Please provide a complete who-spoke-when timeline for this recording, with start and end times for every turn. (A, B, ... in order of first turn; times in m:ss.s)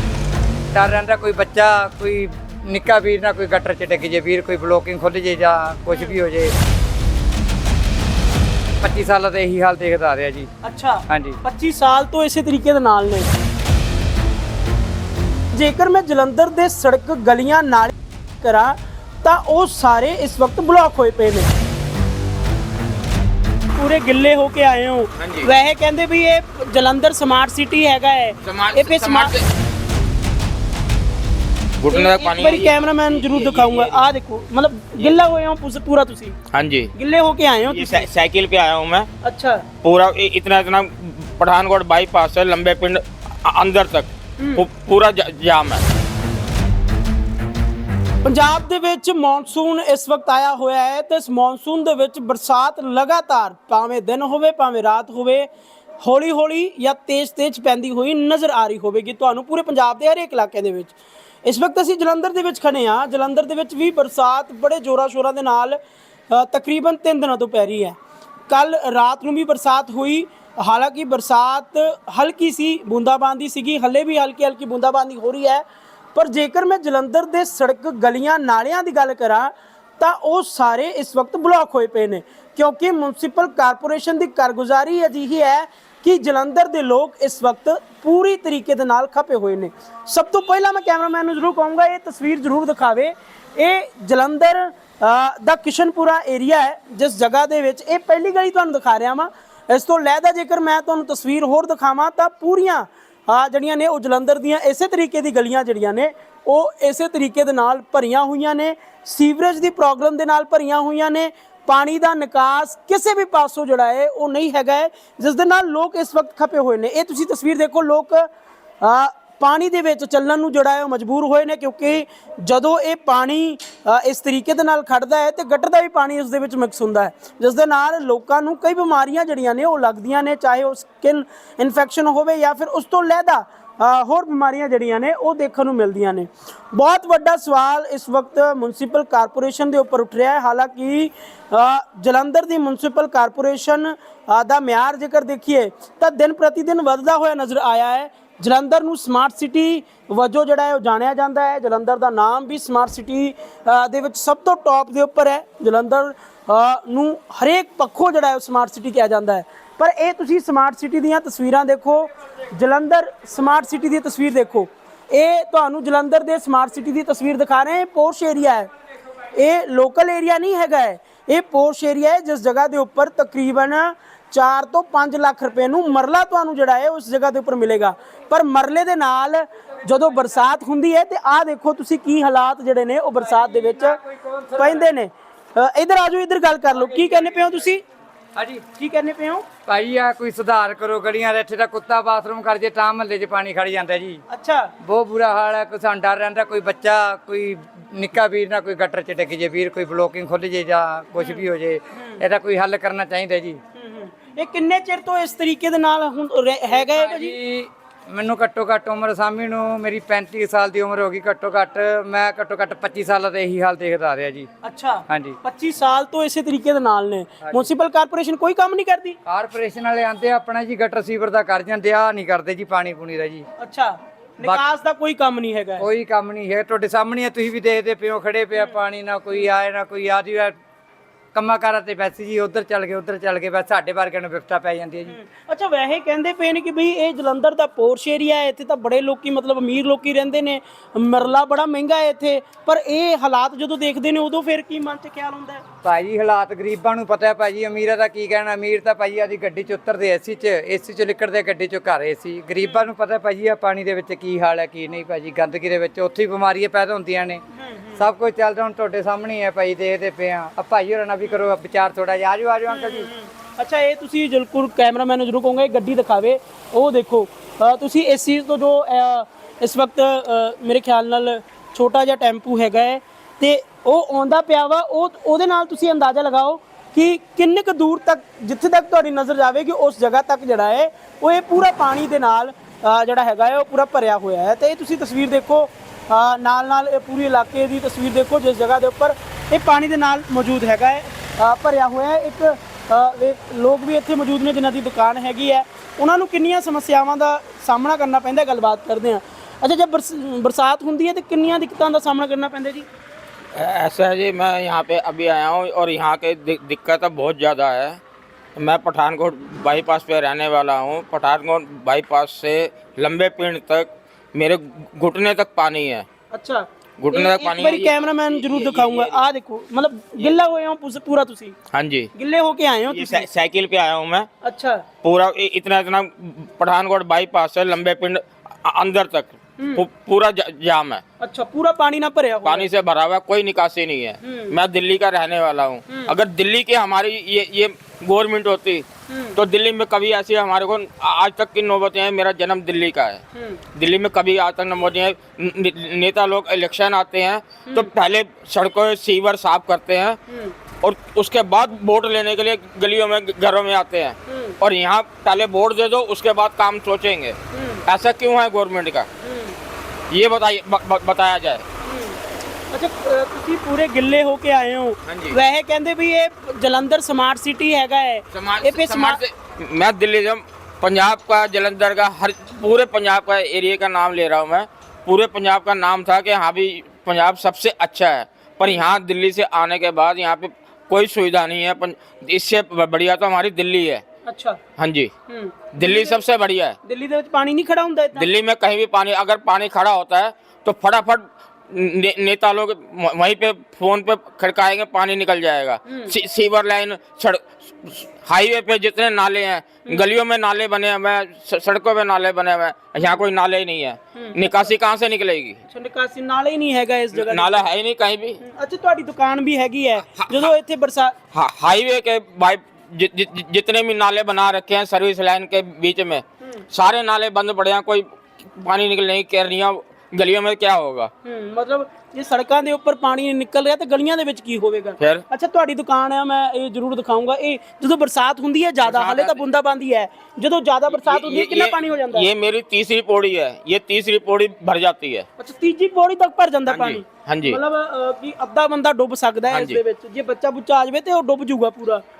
0:00.7-0:06.5 A
0:08.8-0:10.5 A
0:10.6-0:13.3 B
0:11.1-0:11.4 A
0:15.5-0:21.5 B
0:23.7-0:29.3 B
0:25.2-0:25.5 C
0:28.4-0:29.4 C
0:31.8-0:34.1 C
0:31.9-0:36.4 B
0:36.5-0:36.9 C
0:36.9-0:38.0 B
0:37.7-0:39.1 C
0:39.2-0:39.7 B
0:39.8-0:45.8 C
0:44.4-0:44.6 B
0:48.2-0:55.5 B
0:56.0-1:00.9 B
1:01.4-1:05.8 B
1:06.3-1:08.0 B
1:08.5-1:15.6 B
1:16.1-1:58.3 B
1:58.8-2:48.7 B
2:49.3-3:04.0 B
3:03.2-3:04.9 A
3:04.6-3:07.8 B
3:06.7-3:07.5 A
3:08.4-3:08.6 A
3:08.8-3:09.4 B
3:09.7-3:14.2 A
3:14.3-3:14.7 B
3:14.8-3:23.6 A
3:21.2-3:21.4 B
3:23.8-3:27.4 B
3:26.7-3:34.5 A
3:34.6-3:39.2 B
3:35.1-3:35.4 A
3:39.3-3:43.5 A
3:43.6-3:45.9 B
3:45.8-3:50.6 A
3:51.3-3:55.2 A
3:55.1-4:05.6 B
4:05.8-4:17.4 A
4:12.6-4:12.9 B
4:17.6-4:18.0 B
4:18.0-4:23.1 A
4:22.7-5:02.9 B
5:03.5-5:08.0 C
5:08.6-5:16.1 C
5:16.3-5:21.6 B
5:17.0-5:19.2 C
5:21.7-5:22.1 C
5:22.2-5:23.2 B
5:22.9-5:24.3 C
5:24.4-5:24.9 B
5:25.0-5:31.0 C
5:29.6-5:29.8 B
5:31.2-5:32.7 B
5:32.4-5:43.2 C
5:34.2-5:34.6 B
5:35.9-5:36.1 B
5:39.1-5:39.4 B
5:43.3-5:43.6 B
5:43.7-5:50.2 C
5:50.3-5:50.6 B
5:50.8-5:59.1 C
5:54.3-5:54.6 B
5:57.5-5:57.8 B
5:59.2-5:59.6 B
6:00.1-6:01.6 C
6:01.8-6:02.2 B
6:02.7-6:09.2 B
6:05.0-6:05.4 C
6:08.3-6:24.0 C
6:24.2-6:24.6 B
6:24.8-6:25.1 C
6:25.3-6:26.2 B
6:25.7-6:26.8 C
6:26.8-6:28.3 B
6:28.2-6:45.6 C
6:35.9-6:36.1 B
6:44.2-6:44.7 B
6:45.7-6:47.7 B
6:47.1-6:48.4 C
6:48.4-6:51.1 B
6:50.1-6:50.5 C
6:51.3-7:01.1 C
7:01.2-7:12.3 B
7:05.0-7:05.2 C
7:08.8-7:09.4 C
7:10.9-7:15.2 C
7:15.4-7:22.0 B
7:16.7-7:17.6 C
7:19.5-7:19.8 C